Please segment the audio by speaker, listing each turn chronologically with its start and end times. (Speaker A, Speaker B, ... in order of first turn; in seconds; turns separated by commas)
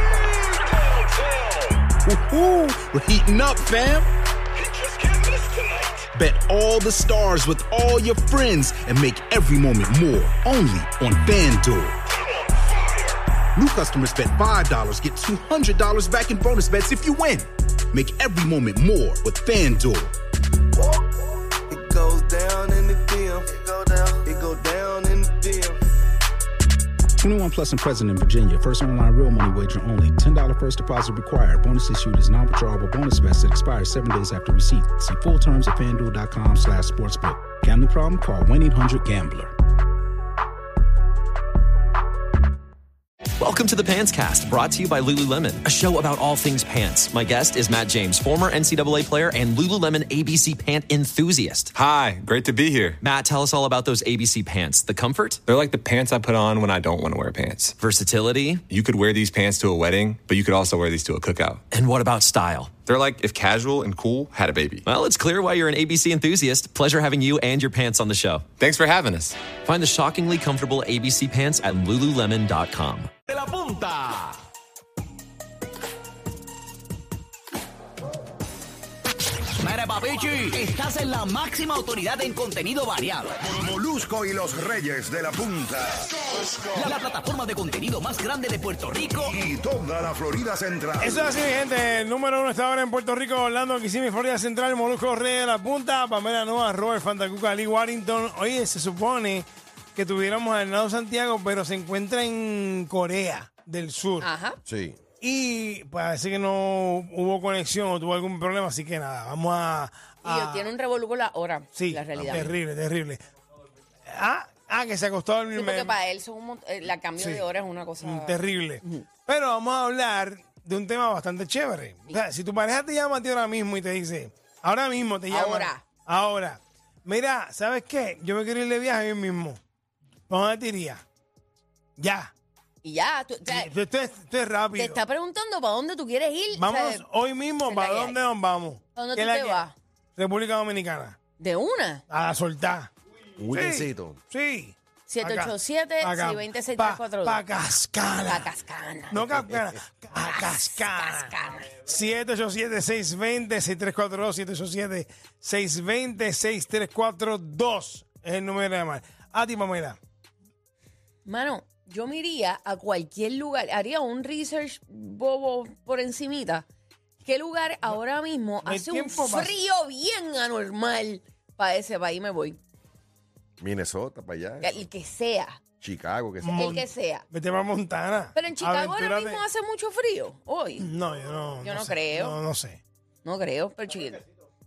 Speaker A: 1.9-4.1, Speaker A: 6.1-12.0, Speaker A: 13.5-20.1, Speaker B: 20.8-21.2, Speaker B: 21.7-25.8, Speaker C: 27.2-39.5, Speaker D: 43.4-51.7, Speaker E: 51.7-53.0, Speaker D: 53.0-55.4, Speaker E: 55.5-57.8, Speaker D: 57.8-58.6, Speaker E: 58.7-61.6, Speaker D: 61.7-62.8, Speaker E: 62.8-64.9, Speaker D: 64.8-68.5, Speaker E: 68.6-69.4, Speaker D: 69.5-73.1, Speaker F: 79.6-83.3, Speaker G: 83.5-85.9, Speaker B: 84.0-85.6, Speaker F: 86.8-89.3, Speaker G: 89.3-91.2, Speaker B: 89.7-90.8, Speaker H: 91.0-104.3, Speaker I: 104.2-104.6, Speaker J: 104.7-105.0, Speaker H: 105.2-110.7, Speaker I: 110.2-112.5, Speaker H: 111.7-113.2, Speaker J: 112.1-112.5, Speaker H: 114.1-116.0, Speaker I: 115.5-119.0, Speaker H: 117.2-117.5, Speaker H: 118.0-129.6, Speaker I: 125.3-125.8, Speaker H: 130.3-131.0, Speaker H: 132.0-132.3, Speaker I: 132.8-133.7, Speaker H: 133.4-135.0, Speaker I: 134.7-137.0, Speaker H: 136.5-141.2, Speaker I: 137.6-138.2, Speaker I: 138.9-139.7, Speaker I: 141.4-142.0, Speaker H: 142.1-142.9, Speaker J: 143.4-144.2, Speaker H: 143.5-148.5, Speaker I: 145.1-147.4, Speaker I: 148.2-149.2, Speaker H: 149.1-160.0, Speaker I: 150.1-151.7, Speaker I: 161.2-166.7, Speaker I: 167.2-172.6, Speaker H: 168.6-169.6, Speaker J: 173.6-174.9, Speaker I: 174.6-175.6, Speaker J: 175.8-176.8, Speaker H: 176.4-179.4, Speaker I: 176.5-177.3, Speaker I: 178.3-180.9, Speaker H: 180.8-182.8, Speaker I: 181.6-182.4, Speaker I: 183.2-184.2